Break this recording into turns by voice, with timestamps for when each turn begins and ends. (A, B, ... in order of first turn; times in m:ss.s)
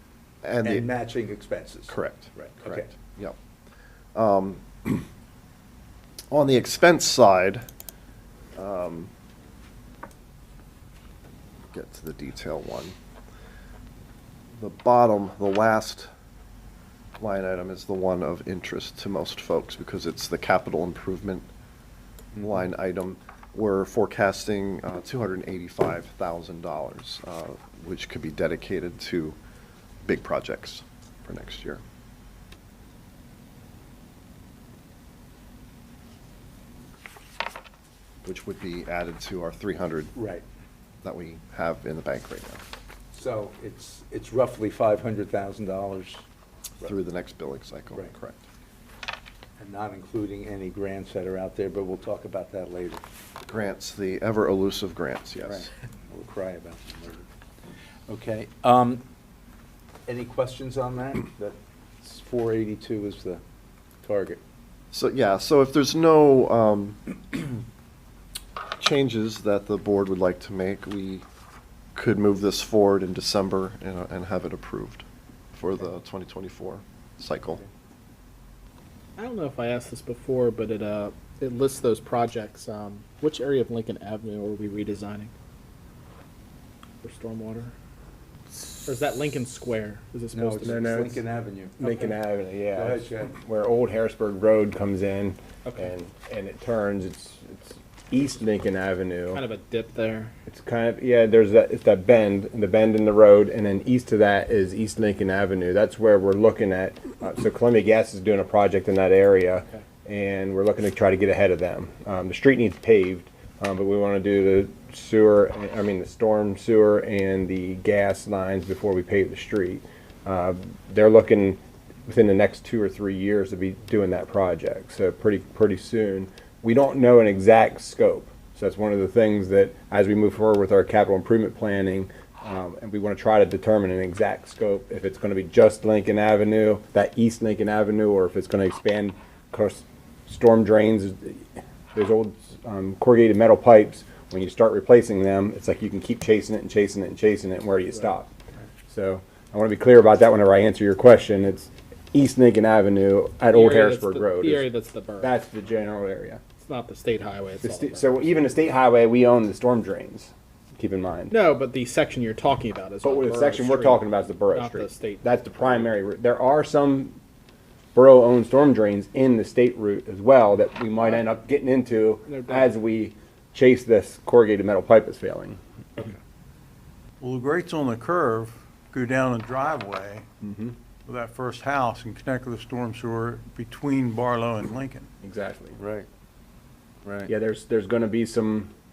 0:00.4-0:00.9 A
0:00.6-0:02.9 B
0:01.9-0:03.4 A
0:04.1-0:05.0 A
0:06.3-0:07.6 A
0:08.6-0:09.1 A
0:11.7-0:12.9 A
0:14.6-0:16.1 A
0:17.2-0:21.5 A
0:22.4-0:29.4 A
0:30.0-0:31.8 A
0:38.2-0:40.1 A
0:40.1-0:40.4 B
0:41.0-0:42.6 A
0:43.1-0:46.2 B
0:46.8-0:48.4 A
0:49.6-0:53.0 B
0:53.4-0:55.7 A
0:55.4-0:57.3 B
0:58.1-0:59.0 B
1:00.1-1:03.4 B
1:04.0-1:04.4 B
1:04.9-1:07.0 A
1:08.8-1:11.2 A
1:11.9-1:17.6 A
1:19.2-1:25.3 C
1:27.0-1:27.7 C
1:28.6-1:31.1 C
1:30.3-1:32.1 B
1:30.6-1:31.2 D
1:31.8-1:39.4 D
1:32.7-1:33.4 B
1:35.7-1:35.9 C
1:39.3-1:40.3 C
1:40.5-2:28.3 D
2:28.9-2:34.7 D
2:33.5-2:35.4 C
2:35.2-2:36.4 D
2:36.6-2:38.6 C
2:37.6-2:41.3 D
2:41.3-2:45.9 C
2:43.0-2:47.2 D
2:47.9-2:56.1 D
2:52.2-2:52.8 C
2:57.2-3:00.2 E
3:00.4-3:00.8 D
3:01.0-3:05.1 E
3:05.2-3:05.8 D
3:05.8-3:06.1 B
3:07.0-3:07.3 B
3:07.3-3:08.7 D